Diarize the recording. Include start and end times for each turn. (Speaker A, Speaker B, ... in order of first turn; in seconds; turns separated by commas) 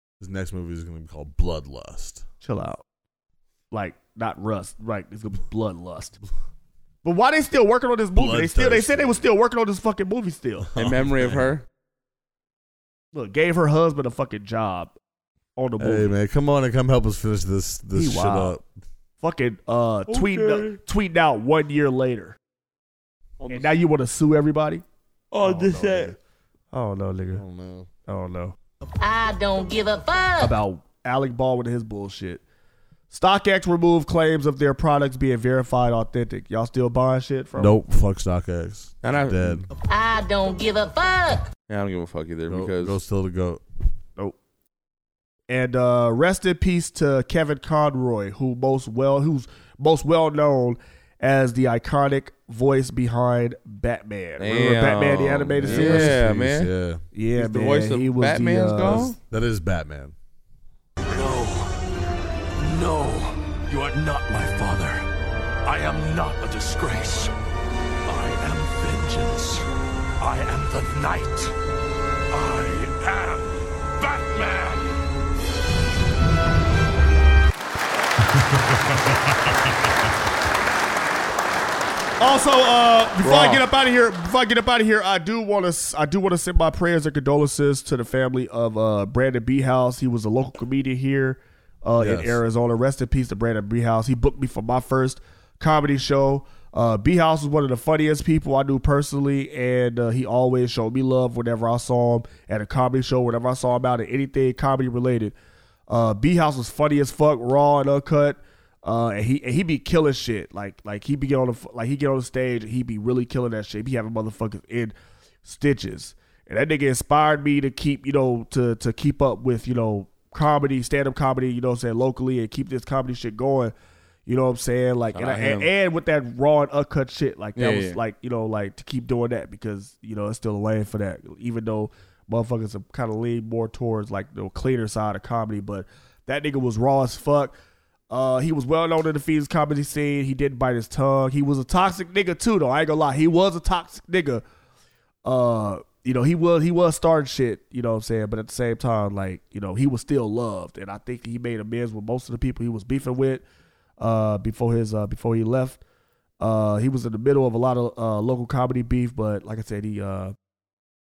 Speaker A: 0.2-2.2, Speaker B: 2.4-2.8, Speaker B: 3.7-6.2, Speaker B: 7.0-10.7, Speaker A: 8.1-9.2, Speaker A: 10.7-11.5, Speaker C: 10.8-11.7, Speaker B: 13.1-14.9, Speaker B: 15.6-16.1, Speaker A: 15.8-18.6, Speaker B: 17.9-18.5, Speaker B: 19.2-22.4, Speaker C: 20.1-20.7, Speaker B: 23.5-24.8, Speaker D: 25.3-26.1, Speaker B: 25.4-26.2, Speaker C: 25.5-26.0, Speaker B: 26.7-27.4, Speaker A: 27.4-27.9, Speaker B: 28.1-28.6, Speaker E: 29.0-30.5, Speaker B: 30.4-32.4, Speaker B: 33.1-37.8, Speaker A: 37.6-39.7, Speaker C: 39.0-39.7, Speaker E: 39.8-41.5, Speaker C: 41.7-43.0, Speaker A: 42.5-43.6, Speaker B: 45.5-56.2, Speaker C: 54.4-56.7, Speaker A: 55.6-57.0, Speaker B: 57.1-59.1, Speaker C: 57.3-59.1, Speaker A: 58.8-60.1, Speaker D: 61.1-61.8, Speaker D: 62.6-65.0, Speaker D: 65.6-67.3, Speaker D: 68.0-69.7, Speaker D: 70.2-71.5, Speaker D: 72.3-74.9, Speaker B: 82.2-105.3, Speaker C: 83.2-83.6, Speaker A: 92.0-92.4, Speaker B: 105.9-114.9, Speaker B: 115.4-123.7, Speaker B: 124.2-137.5, Speaker C: 125.1-125.7, Speaker C: 127.6-128.0, Speaker B: 138.1-144.4, Speaker B: 145.2-153.4, Speaker B: 154.0-155.8, Speaker B: 156.4-160.3